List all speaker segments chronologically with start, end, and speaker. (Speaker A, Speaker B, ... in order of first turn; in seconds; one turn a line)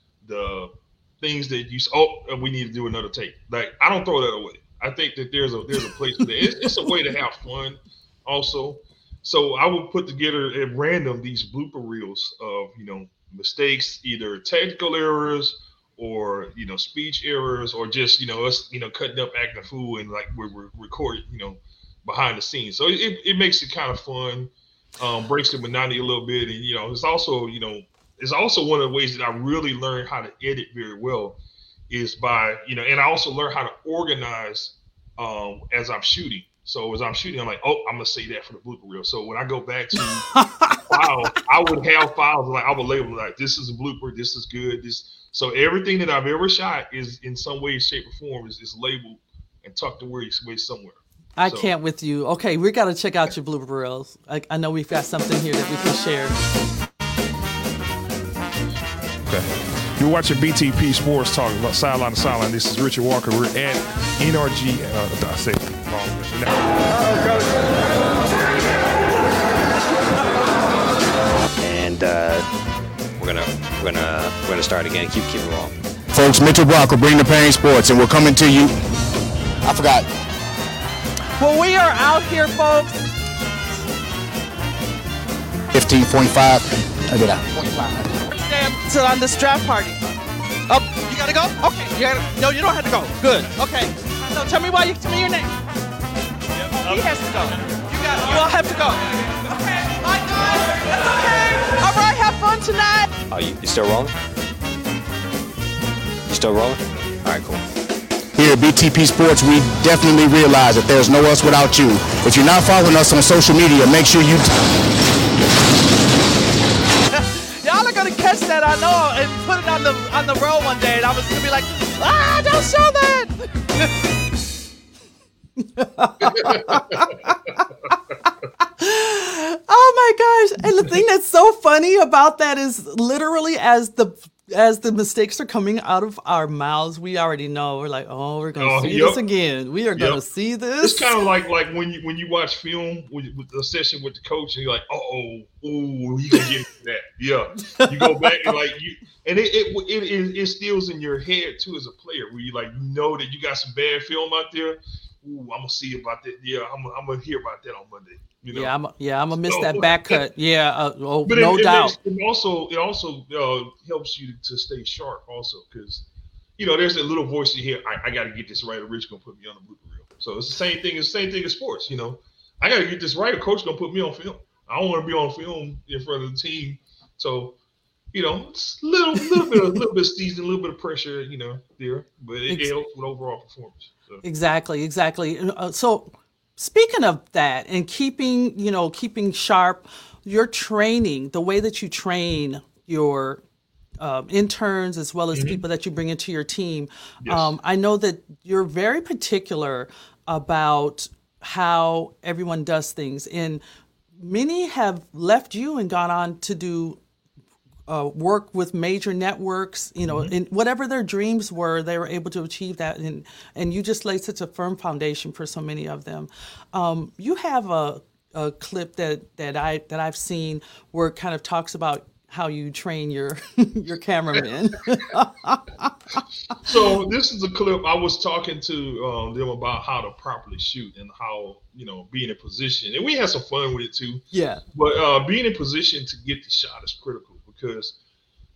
Speaker A: 0.2-51.7
Speaker B: 40.3-40.9
Speaker B: 51.4-56.4
Speaker C: 59.2-66.7
Speaker D: 71.6-72.5
Speaker D: 73.2-75.8
Speaker E: 76.1-78.8
Speaker E: 79.6-80.1
Speaker B: 81.4-83.0
Speaker E: 85.7-88.0
Speaker B: 88.3-90.0
Speaker B: 90.7-95.5
Speaker B: 96.8-99.0
Speaker B: 99.8-103.1
Speaker D: 103.3-104.1
Speaker D: 106.3-107.6
Speaker E: 108.3-114.7
Speaker B: 117.1-123.9
Speaker B: 125.6-127.7
Speaker A: 126.2-127.1
Speaker B: 128.6-141.2
Speaker A: 138.6-139.2
Speaker A: 140.8-158.7
Speaker B: 147.7-148.5
Speaker B: 158.5-161.9
Speaker A: 159.4-160.2
Speaker A: 161.2-166.0
Speaker A: 166.6-177.6
Speaker A: 178.1-184.2
Speaker B: 184.2-193.4
Speaker B: 194.0-203.6
Speaker A: 195.3-195.6
Speaker A: 197.2-197.5
Speaker B: 204.2-207.0
Speaker B: 207.9-226.6
Speaker A: 210.1-210.3
Speaker A: 226.6-237.9
Speaker B: 234.3-234.6